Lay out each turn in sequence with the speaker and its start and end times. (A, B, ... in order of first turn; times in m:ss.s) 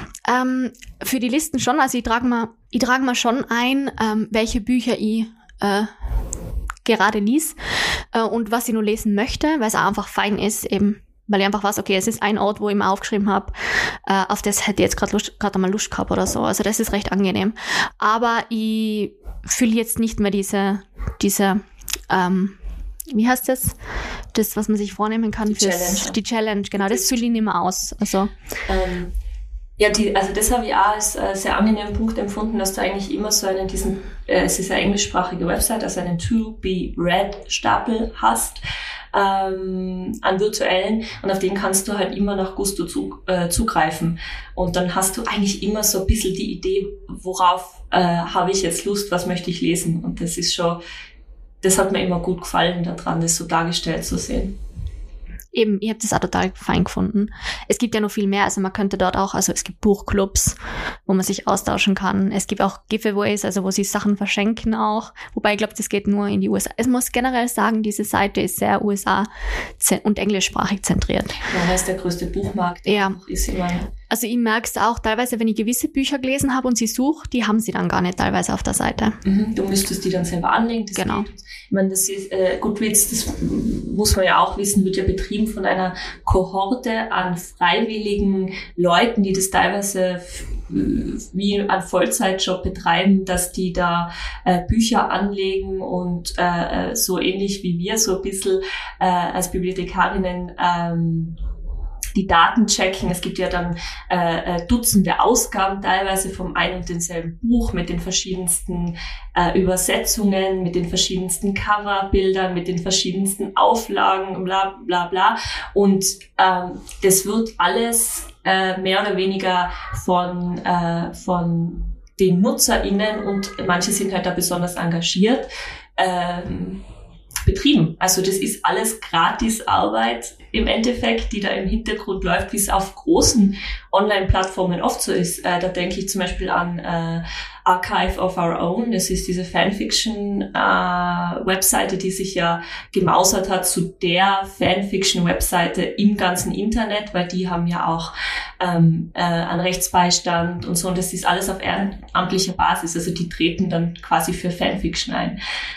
0:00.3-0:05.9 A
0:06.8-0:13.5 A
0:14.1-0:22.6 A
0:23.1-0:23.8 A
0:24.3-0:28.3 A
0:25.4-0:26.2 B
0:26.8-0:27.3 B
0:28.7-0:29.1 B
0:29.8-0:38.6 B
0:39.1-0:50.8 B
0:51.6-0:54.6 B
0:55.5-1:11.4 A
1:11.4-1:13.9 B
1:12.9-1:13.2 A
1:14.1-1:19.2 A
1:19.2-1:41.4 B
1:20.9-1:21.3 A
1:42.1-2:06.8 B
2:07.4-2:35.4 B